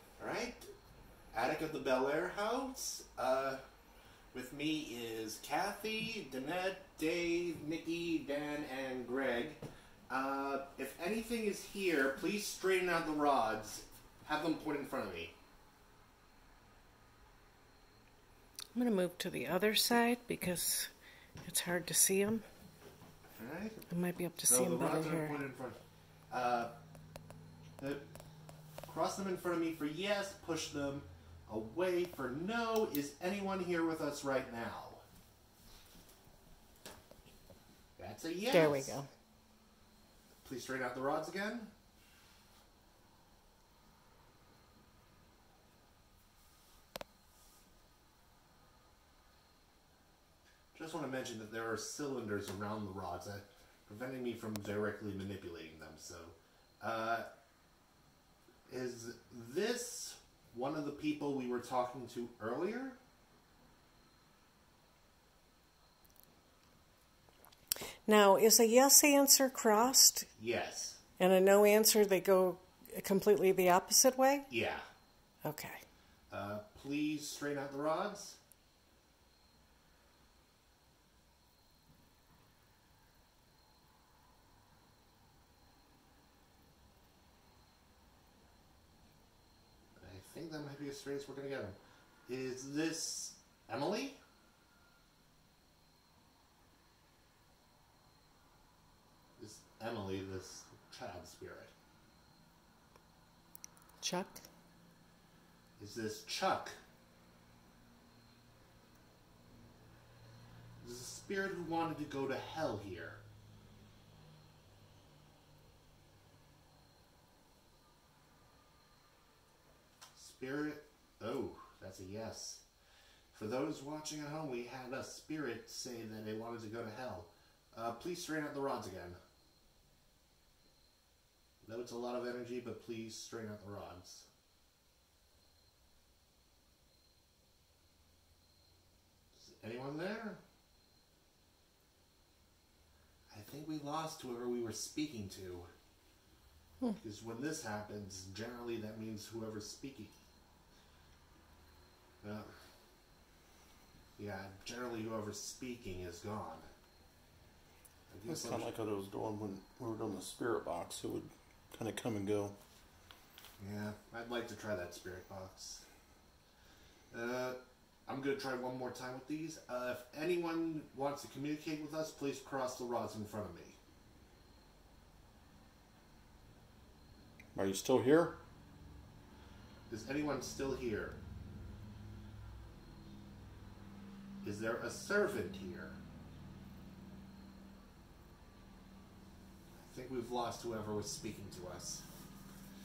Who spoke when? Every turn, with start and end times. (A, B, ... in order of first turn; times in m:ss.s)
0:00.2-0:00.7 A
0:01.3-0:03.6 A
0:04.3-0:15.4 A
0:18.7-0:20.9 B
0:21.4-0:22.4 B
0:23.4-0:23.8 A
0:23.9-0:25.4 B
0:24.4-0:25.8 A
0:26.3-0:26.7 A
0:27.8-0:28.0 A
0:28.9-0:35.0 A
0:38.0-0:39.0 A
0:38.5-0:39.1 B
0:40.4-0:41.7 A
0:50.8-0:57.3 A
0:58.7-1:03.0 A
1:08.0-1:10.3 B
1:10.4-1:11.0 A
1:11.2-1:14.5 B
1:14.5-1:14.8 A
1:15.4-1:15.8 B
1:16.3-1:18.4 A
1:30.0-1:34.2 A
1:39.4-1:41.7 A
1:44.0-1:44.4 B
1:45.8-1:46.7 A
1:50.8-1:53.2 A
2:00.1-2:02.7 A
2:03.3-2:09.2 A
2:11.6-2:14.3 A
2:19.3-2:20.4 A
2:23.3-2:25.7 A
2:27.0-2:30.2 A
2:32.2-2:32.5 A
2:34.2-2:36.7 A
2:38.1-2:38.7 A
2:38.3-2:42.6 C
2:43.6-2:45.9 A
2:47.1-2:53.8 A
2:57.6-2:58.4 C
2:59.9-3:01.2 A
3:04.4-3:06.0 A
3:09.8-3:12.0 A